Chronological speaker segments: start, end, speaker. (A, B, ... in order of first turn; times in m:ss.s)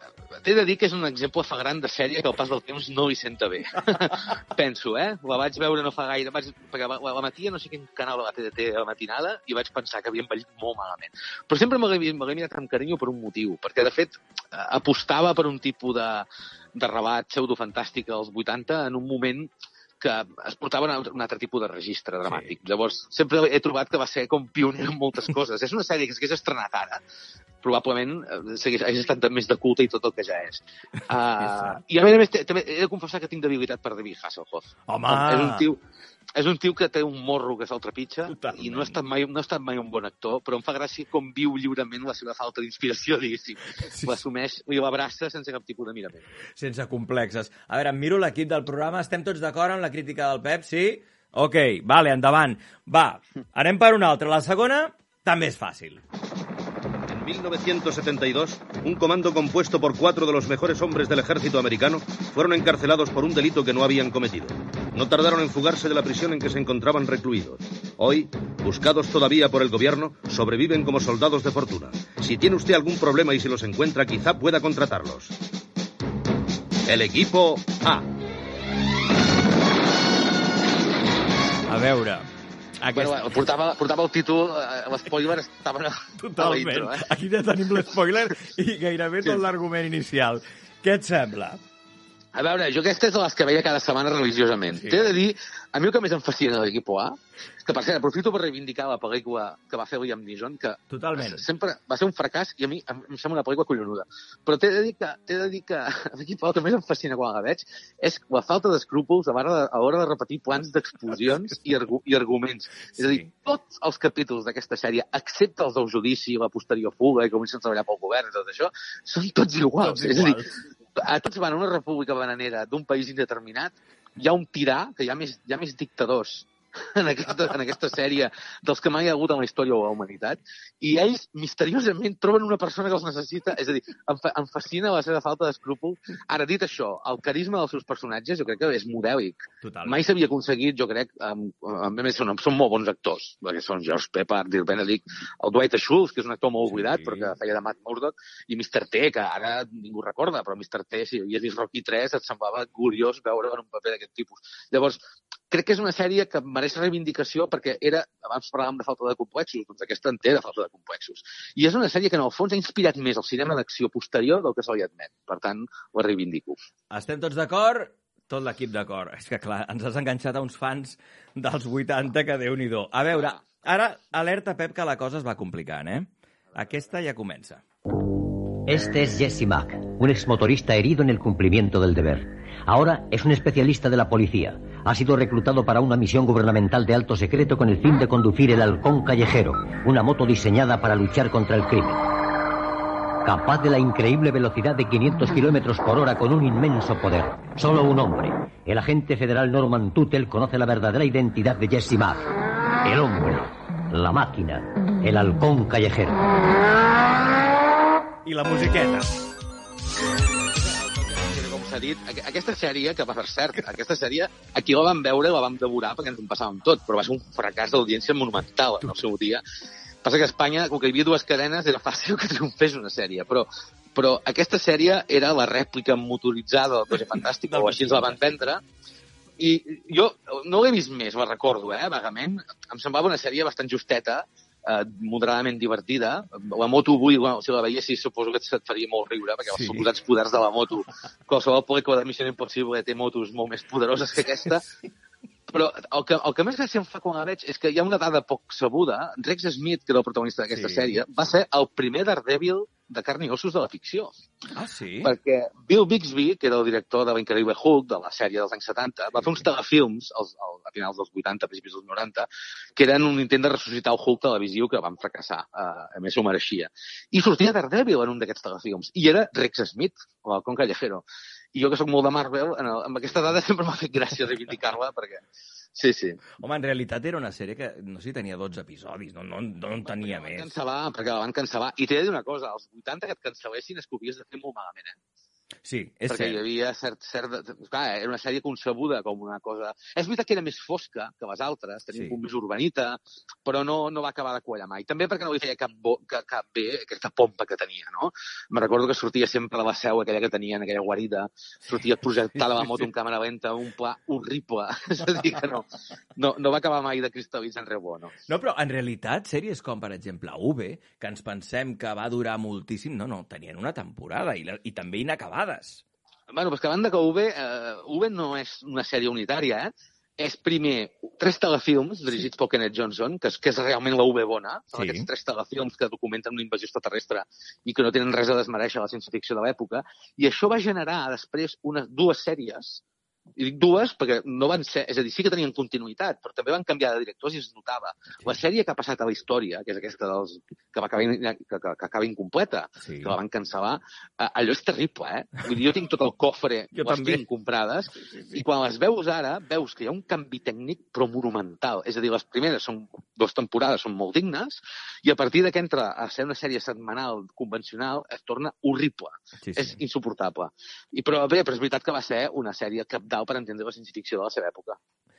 0:00.4-0:27.0 A
0:22.3-0:22.5 B
0:27.6-0:35.8 A
0:31.4-0:31.8 B
0:34.9-0:35.6 B
0:36.4-0:46.2 A
0:38.3-0:39.0 B
0:43.9-0:44.2 B
0:46.6-0:56.0 B
0:57.1-1:15.3 C
1:16.9-1:18.0 C
1:21.7-1:22.3 B
1:22.8-1:23.4 B
1:22.9-1:27.0 A
1:26.2-1:31.6 B
1:32.3-2:00.4 A
1:34.7-1:35.1 B
1:40.9-1:41.4 B
1:53.0-1:53.3 B
1:59.8-2:00.5 B
2:01.0-2:46.6 A
2:19.6-2:20.1 B
2:26.6-2:27.3 B
2:46.9-2:57.6 B
2:53.1-2:53.4 A
2:58.7-3:12.0 D
3:13.2-3:22.3 D
3:22.8-3:26.4 D
3:28.2-3:29.1 B
3:30.6-3:39.4 A
3:40.0-3:48.6 A
3:46.9-3:48.4 B
3:49.4-4:04.6 A
3:59.5-3:59.8 B
4:05.5-4:14.2 A
4:10.5-4:11.0 B
4:14.5-4:15.1 B
4:15.0-4:31.0 A
4:31.5-4:35.2 A
4:35.7-4:36.2 A
4:36.4-4:40.6 B
4:39.8-4:45.0 A
4:45.6-4:46.4 B
4:46.1-5:08.2 A
5:02.5-5:02.9 B
5:08.3-5:15.8 B
5:16.3-5:32.8 A
5:24.8-5:25.1 B
5:33.4-6:04.8 A
5:42.8-5:43.2 B
5:46.7-5:47.2 B
5:47.9-5:48.4 B
5:59.4-5:59.8 B